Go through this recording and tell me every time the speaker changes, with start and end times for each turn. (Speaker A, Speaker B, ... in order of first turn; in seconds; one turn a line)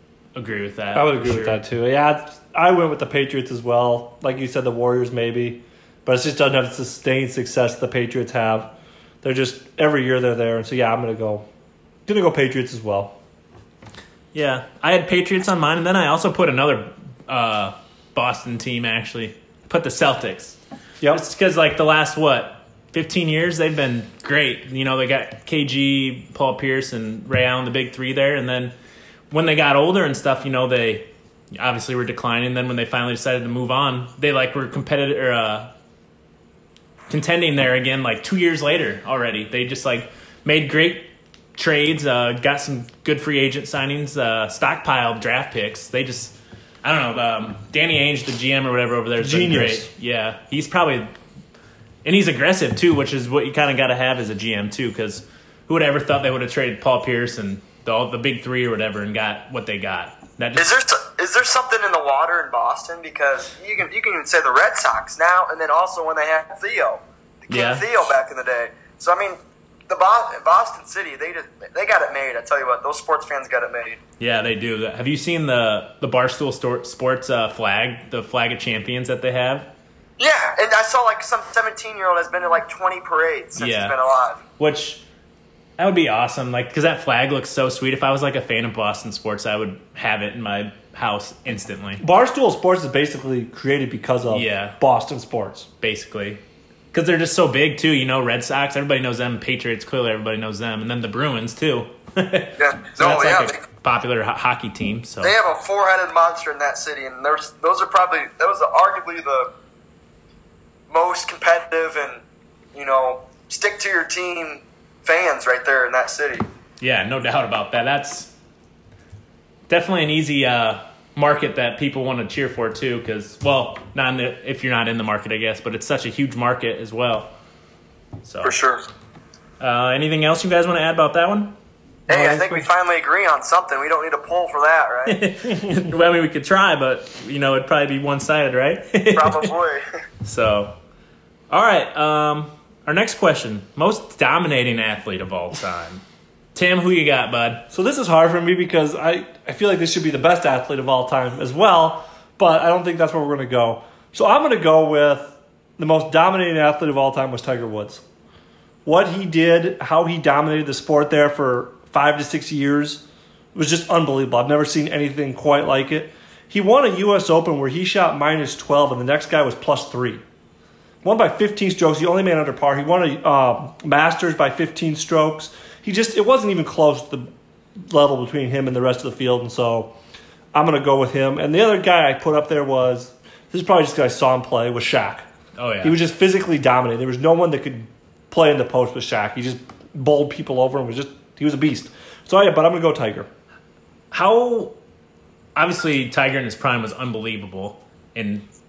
Speaker A: 0.3-1.6
Speaker B: 0.9-11.4
Speaker B: 12.1-13.2
Speaker A: 14.3-20.6
Speaker A: 21.1-28.8
Speaker A: 29.3-35.7
Speaker A: 37.1-51.1
Speaker B: 49.2-49.9
Speaker A: 52.0-60.8
Speaker C: 60.6-74.0
Speaker A: 67.5-67.9
Speaker A: 74.2-79.7
Speaker C: 80.2-84.4
Speaker A: 83.6-84.0
Speaker A: 84.6-85.0
Speaker A: 85.8-92.0
Speaker B: 92.0-95.7
Speaker A: 94.3-94.8
Speaker A: 95.8-96.4
Speaker A: 96.9-105.3
Speaker C: 102.6-103.6
Speaker C: 105.2-109.5
Speaker C: 110.9-112.2
Speaker C: 112.7-116.5
Speaker A: 116.8-118.3
Speaker A: 119.7-127.3
Speaker A: 128.2-128.6
Speaker C: 128.4-128.8
Speaker A: 129.6-131.6
Speaker C: 132.1-135.2
Speaker A: 132.1-132.6
Speaker A: 135.1-139.5
Speaker C: 139.1-139.8
Speaker A: 140.2-140.8
Speaker A: 141.5-146.0
Speaker A: 146.6-147.7
Speaker B: 147.7-158.0
Speaker B: 158.8-170.2
Speaker B: 171.0-179.9
Speaker B: 180.5-185.2
Speaker A: 185.6-186.0
Speaker B: 185.8-193.3
Speaker A: 194.1-194.8
Speaker A: 195.6-198.5